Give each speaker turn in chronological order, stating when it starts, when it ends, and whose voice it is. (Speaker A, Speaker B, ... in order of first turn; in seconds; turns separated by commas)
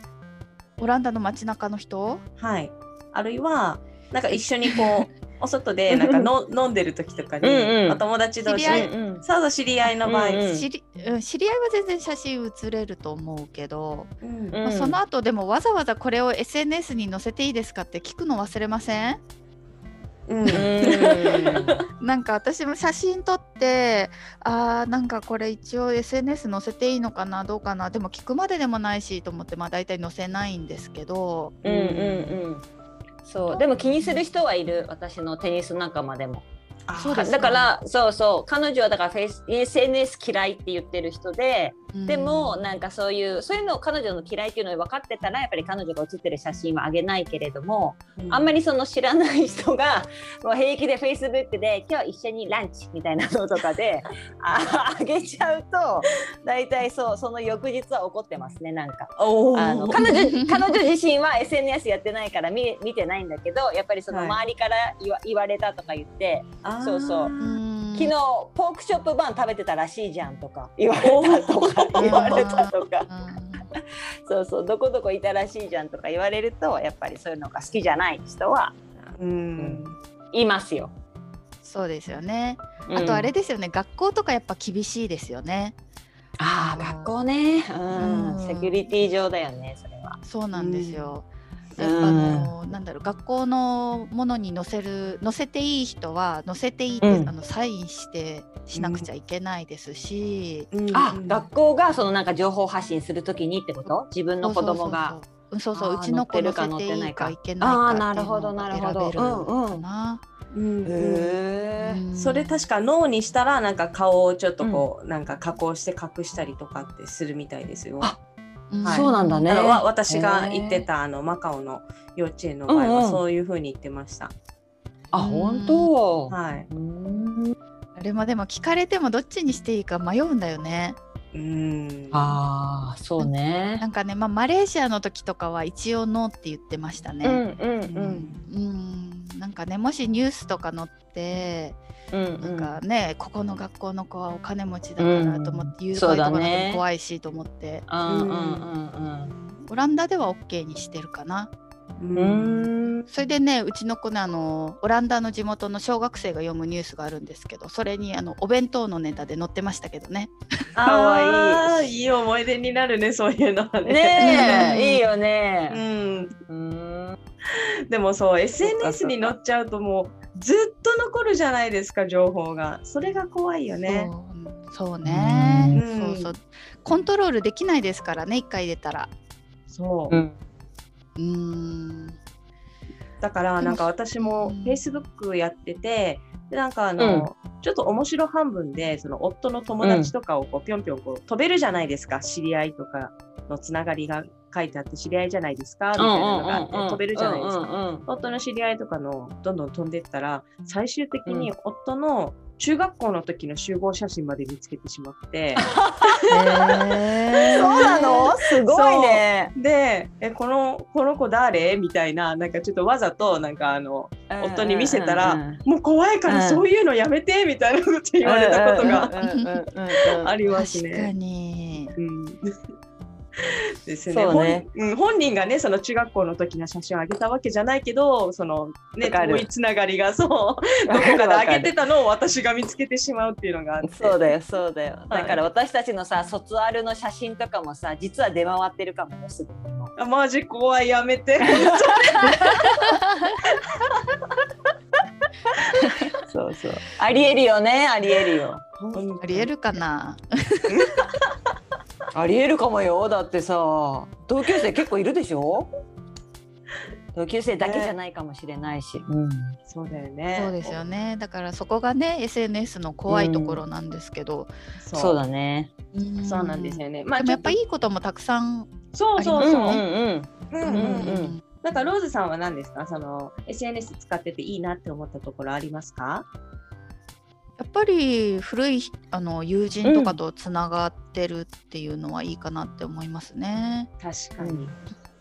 Speaker A: 0.8-2.2, Speaker B: 2.4-10.6, Speaker C: 5.9-6.3, Speaker C: 7.4-8.0, Speaker A: 8.4-8.9, Speaker C: 8.6-9.2, Speaker C: 10.0-10.7, Speaker A: 10.5-14.1, Speaker B: 14.2-14.6, Speaker C: 14.5-15.0, Speaker A: 14.6-19.2, Speaker B: 20.3-21.8, Speaker C: 20.5-21.8, Speaker A: 20.5-32.4, Speaker C: 31.6-32.6, Speaker C: 33.2-36.5, Speaker A: 33.5-34.2, Speaker B: 36.9-37.4, Speaker A: 37.0-37.7, Speaker C: 37.0-67.3, Speaker A: 41.9-42.6, Speaker B: 48.1-48.5, Speaker B: 59.2-60.0, Speaker A: 60.0-60.6, Speaker B: 64.1-64.4, Speaker B: 66.6-67.5, Speaker A: 67.4-68.1, Speaker C: 67.9-73.1, Speaker B: 71.0-72.8, Speaker A: 72.0-73.7, Speaker C: 73.7-78.7, Speaker B: 79.1-80.0, Speaker C: 79.6-80.9, Speaker A: 81.6-85.8, Speaker C: 82.9-83.3, Speaker C: 86.4-90.2, Speaker A: 86.5-87.1, Speaker A: 87.9-88.8, Speaker A: 90.2-100.7, Speaker B: 90.5-91.1, Speaker C: 91.8-92.5, Speaker C: 97.0-97.3, Speaker B: 98.7-99.1, Speaker B: 100.7-101.5, Speaker C: 100.9-105.2, Speaker A: 104.4-110.2, Speaker C: 105.7-109.8, Speaker B: 110.5-111.4, Speaker C: 110.8-112.0, Speaker A: 111.8-112.6, Speaker B: 112.2-118.1, Speaker A: 118.7-119.5, Speaker C: 118.8-120.9, Speaker B: 118.8-124.3, Speaker C: 122.7-123.2, Speaker C: 125.1-127.5, Speaker A: 125.1-125.9, Speaker B: 126.3-126.7, Speaker A: 128.0-131.0, Speaker B: 131.3-132.4, Speaker C: 132.1-133.8, Speaker A: 133.2-137.4, Speaker C: 137.2-138.3, Speaker B: 137.9-138.4, Speaker A: 138.4-141.8, Speaker C: 142.1-142.8, Speaker A: 142.4-147.8, Speaker C: 145.0-146.8, Speaker C: 147.9-149.3, Speaker B: 148.1-148.7, Speaker A: 149.7-151.5, Speaker B: 152.0-152.7, Speaker C: 152.1-153.1, Speaker A: 153.1-160.3, Speaker B: 160.7-164.8, Speaker C: 160.8-161.9, Speaker C: 163.8-165.8, Speaker A: 164.2-165.0, Speaker B: 165.7-166.3, Speaker C: 166.5-167.2, Speaker B: 167.5-174.1, Speaker C: 168.6-169.3, Speaker A: 173.8-179.1, Speaker C: 175.0-175.8, Speaker B: 175.7-176.3, Speaker B: 179.7-180.2, Speaker C: 180.1-180.3, Speaker A: 181.2-182.2, Speaker B: 183.2-206.7, Speaker A: 183.6-184.8, Speaker C: 187.0-187.3, Speaker C: 189.8-190.1, Speaker C: 195.9-198.0, Speaker C: 201.2-201.5, Speaker C: 205.6-209.5, Speaker A: 206.3-208.1, Speaker B: 207.3-219.2, Speaker C: 214.3-215.6, Speaker C: 216.2-216.6, Speaker C: 218.2-220.3, Speaker A: 219.0-219.6, Speaker B: 220.0-221.1, Speaker A: 220.5-221.9, Speaker B: 222.0-222.5, Speaker B: 223.4-234.3, Speaker C: 224.1-224.7, Speaker C: 229.0-229.5, Speaker C: 230.9-231.7, Speaker C: 233.8-239.9, Speaker B: 235.1-235.4, Speaker B: 240.0-242.7, Speaker C: 241.4-242.2, Speaker A: 242.1-243.4, Speaker C: 246.2-248.6, Speaker B: 248.8-249.5, Speaker A: 249.2-250.9, Speaker C: 252.1-255.7, Speaker C: 257.1-259.6, Speaker B: 257.6-257.9, Speaker B: 259.7-260.8, Speaker A: 260.3-264.5, Speaker C: 263.1-263.6, Speaker B: 264.8-265.2, Speaker C: 264.9-265.7, Speaker A: 265.9-269.8, Speaker B: 266.2-267.6, Speaker B: 268.9-269.8, Speaker C: 269.4-271.3, Speaker B: 270.5-276.2, Speaker A: 270.6-271.4, Speaker A: 277.6-283.9, Speaker C: 279.8-280.2, Speaker B: 284.0-284.7, Speaker C: 284.4-284.7